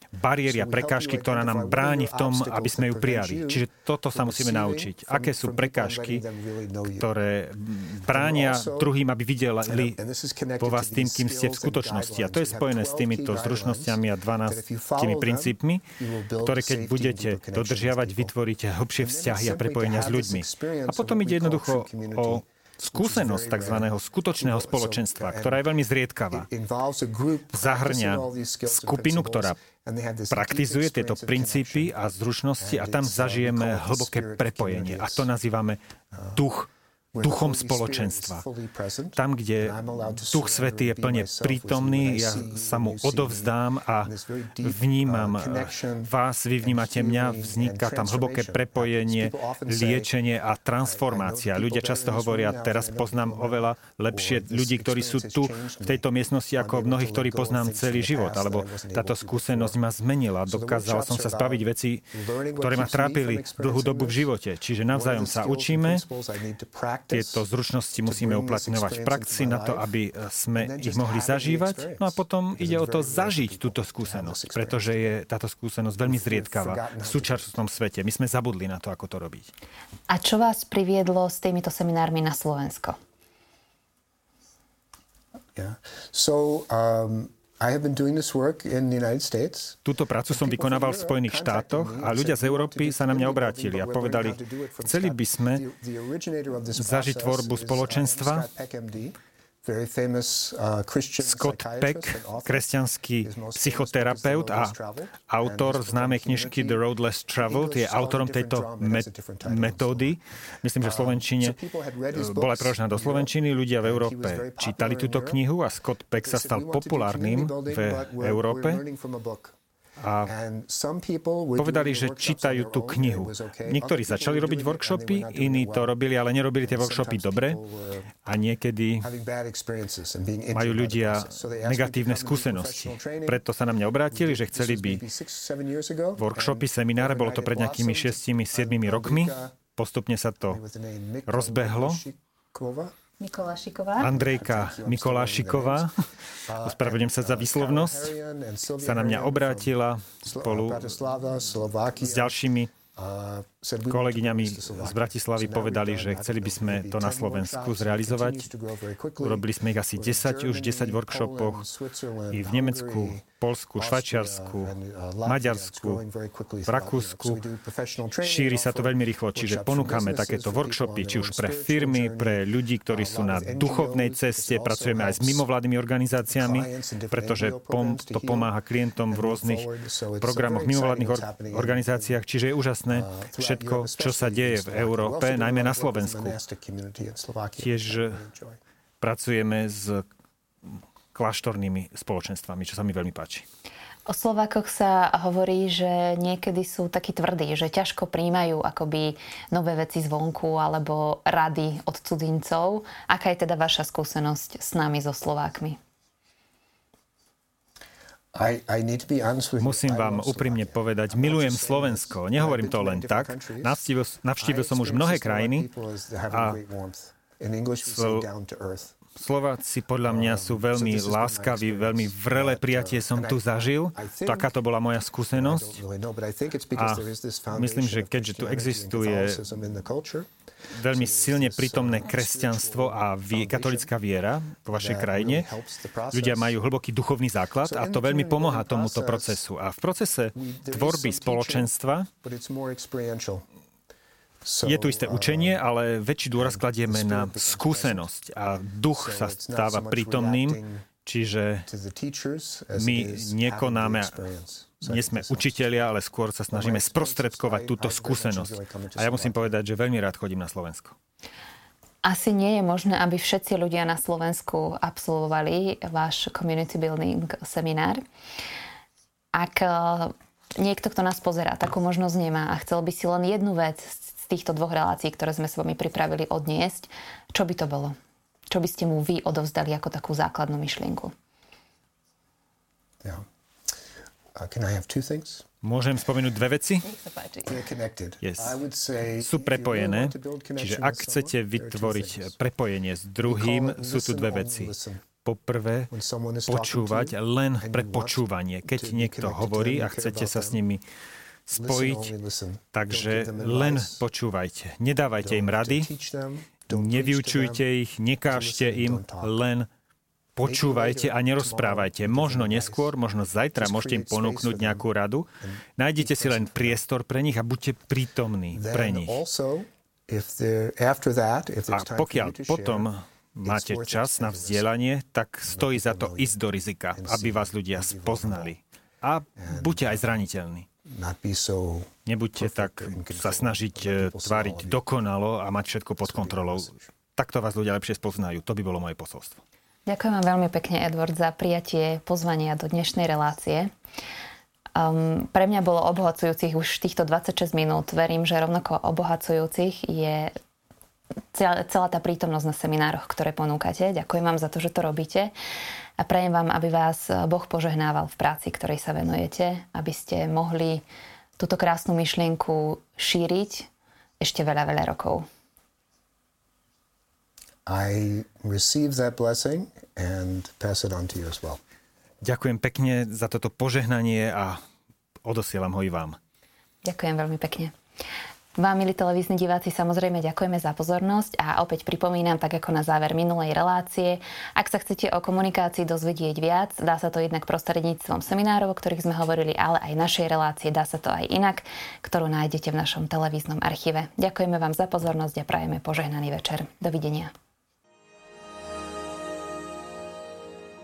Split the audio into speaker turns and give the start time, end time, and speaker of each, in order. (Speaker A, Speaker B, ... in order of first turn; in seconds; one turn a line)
Speaker A: 0.1-6.2
Speaker B: 0.4-7.1
Speaker A: 7.0-10.0
Speaker B: 8.0-8.9
Speaker B: 9.6-18.3
Speaker A: 10.6-15.9
Speaker A: 16.4-26.4
Speaker B: 19.0-25.6
Speaker B: 26.3-31.9
Speaker A: 27.5-29.6
Speaker A: 30.3-35.8
Speaker B: 32.6-35.3
Speaker B: 36.1-36.4
Speaker A: 36.4-36.7
Speaker B: 37.1-50.1
Speaker A: 37.2-38.4
Speaker A: 39.1-44.1
Speaker A: 44.6-66.0
Speaker B: 50.8-59.8
Speaker B: 60.5-64.3
Speaker B: 64.9-67.4
Speaker A: 67.1-79.5
Speaker B: 68.0-69.9
Speaker B: 70.5-75.1
Speaker B: 76.0-77.6
Speaker C: 80.1-83.0
Speaker B: 85.5-102.7
Speaker A: 89.8-95.6
Speaker A: 96.7-98.5
Speaker A: 101.2-104.7
Speaker B: 103.2-106.8
Speaker A: 105.3-111.6
Speaker B: 107.4-110.2
Speaker B: 110.8-115.4
Speaker A: 112.1-118.8
Speaker B: 116.2-119.5
Speaker A: 120.0-120.3
Speaker B: 120.2-126.0
Speaker A: 121.6-127.6
Speaker B: 126.6-128.1
Speaker A: 128.2-129.1
Speaker B: 129.0-133.4
Speaker A: 130.5-135.0
Speaker B: 134.1-139.6
Speaker A: 136.2-140.6
Speaker B: 140.4-142.9
Speaker A: 141.3-142.0
Speaker C: 143.2-144.1
Speaker A: 144.0-145.9
Speaker B: 144.0-145.9
Speaker B: 146.4-152.3
Speaker A: 146.6-148.1
Speaker A: 148.8-150.9
Speaker A: 151.9-152.7
Speaker B: 152.9-163.2
Speaker A: 153.9-158.5
Speaker A: 159.2-161.6
Speaker A: 162.3-164.7
Speaker B: 163.8-175.4
Speaker A: 165.2-166.0
Speaker A: 166.7-167.4
Speaker A: 168.2-179.7
Speaker B: 176.3-178.5
Speaker B: 179.1-182.2
Speaker A: 180.2-186.4
Speaker B: 182.9-188.6
Speaker A: 187.6-188.2
Speaker A: 189.0-190.0
Speaker A: 190.7-193.4
Speaker C: 194.1-205.8
Speaker B: 208.3-213.8
Speaker A: 209.6-215.7
Speaker B: 214.4-219.0
Speaker A: 216.3-216.6
Speaker A: 217.8-218.2
Speaker A: 219.2-225.8
Speaker B: 220.0-224.5
Speaker B: 225.3-230.3
Speaker A: 226.7-229.4
Speaker A: 230.7-235.5
Speaker B: 230.8-233.9
Speaker B: 234.7-236.6
Speaker A: 236.1-242.1
Speaker B: 237.6-239.4
Speaker B: 240.3-241.7
Speaker B: 242.2-243.4
Speaker B: 244.4-245.6
Speaker A: 244.6-251.7
Speaker B: 246.3-248.1
Speaker B: 248.9-250.9
Speaker B: 251.7-255.6
Speaker A: 252.7-254.2
Speaker A: 254.8-260.9
Speaker B: 256.5-259.6
Speaker C: 262.0-268.0
Speaker C: 269.3-277.9
Speaker C: 278.5-281.1
Speaker B: 284.3-285.4
Speaker A: 285.6-286.8
Speaker C: 286.8-287.6
Speaker B: 287.4-292.4
Speaker A: 288.2-288.6
Speaker A: 289.2-294.7
Speaker B: 293.2-295.0
Speaker A: 295.2-295.9
Speaker B: 295.9-300.6
Speaker A: 296.5-300.8
Speaker A: 301.5-302.1
Speaker B: 301.5-304.0
Speaker A: 302.7-305.9
Speaker B: 305.2-307.6
Speaker A: 306.7-309.7
Speaker B: 308.3-309.4
Speaker A: 310.4-315.3
Speaker B: 310.4-312.9
Speaker B: 313.6-314.8
Speaker B: 315.4-316.8
Speaker A: 315.8-319.2
Speaker B: 318.5-324.7
Speaker A: 321.7-330.6
Speaker B: 325.5-326.4
Speaker B: 326.9-328.5
Speaker B: 329.4-330.2
Speaker B: 330.8-334.8
Speaker A: 332.1-339.4
Speaker B: 336.0-336.9
Speaker C: 339.9-343.7
Speaker C: 344.7-350.3
Speaker C: 351.3-355.3
Speaker C: 356.0-360.8
Speaker C: 361.4-363.7
Speaker C: 364.2-365.2
Speaker B: 367.6-371.6
Speaker A: 372.2-374.6
Speaker A: 375.2-376.2
Speaker C: 376.8-377.7
Speaker C: 378.6-397.3